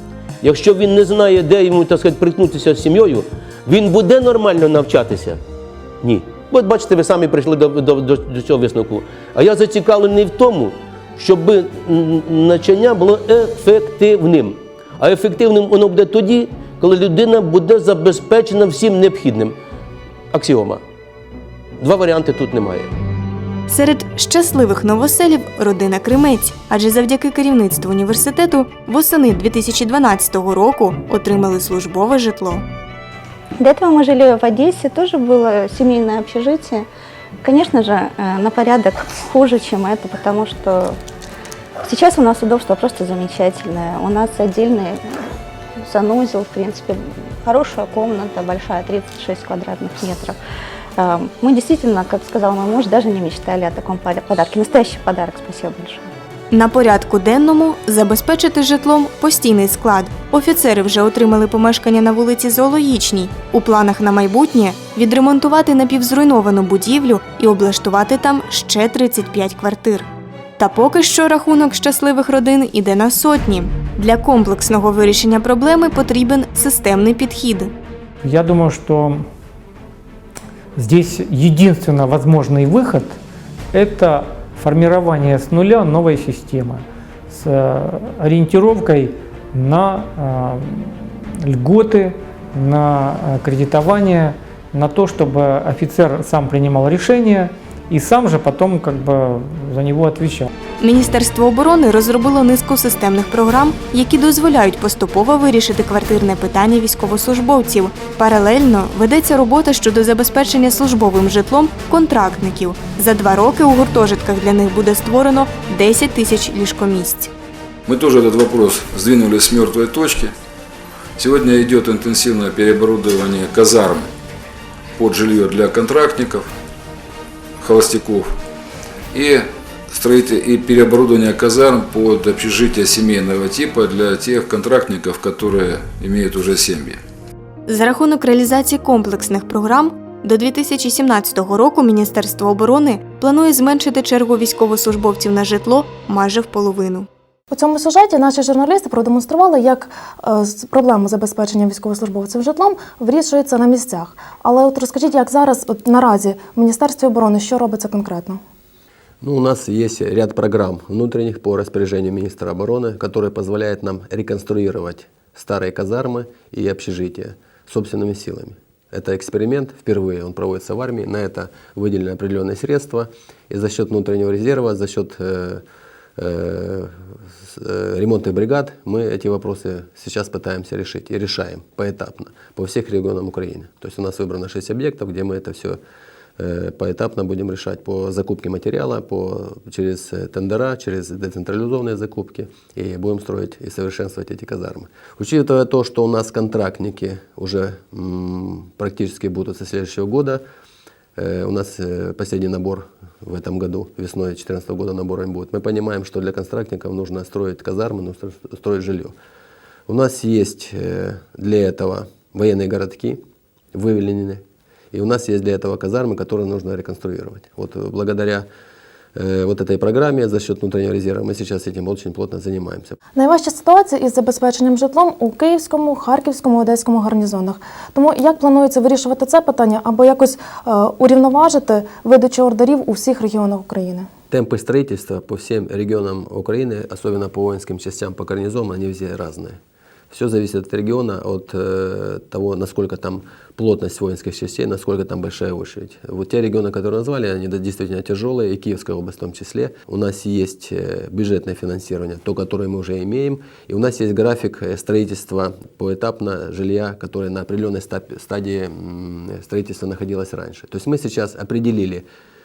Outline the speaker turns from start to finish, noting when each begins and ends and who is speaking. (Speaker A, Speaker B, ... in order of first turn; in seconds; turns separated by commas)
Speaker A: 0.4-5.4, Speaker A: 6.0-19.6, Speaker A: 20.3-20.8, Speaker A: 21.8-22.9, Speaker B: 23.7-32.6, Speaker C: 33.6-36.9, Speaker C: 37.4-41.0, Speaker C: 41.9-45.0, Speaker C: 45.8-50.4, Speaker C: 51.0-56.0, Speaker B: 56.5-70.1, Speaker B: 70.6-77.7, Speaker D: 78.2-79.2, Speaker D: 80.8-83.2, Speaker D: 83.7-100.5, Speaker B: 100.8-117.3, Speaker E: 117.9-120.3, Speaker E: 121.2-124.1, Speaker E: 125.0-126.5, Speaker E: 127.6-128.3, Speaker E: 129.1-137.0, Speaker B: 137.7-147.1, Speaker F: 147.5-158.4, Speaker G: 159.2-175.6, Speaker G: 176.2-185.8, Speaker G: 186.4-200.4, Speaker G: 201.2-209.2, Speaker G: 209.9-213.2, Speaker G: 213.7-218.5, Speaker G: 219.2-223.0, Speaker F: 223.2-234.1, Speaker G: 234.3-239.6, Speaker G: 240.1-262.1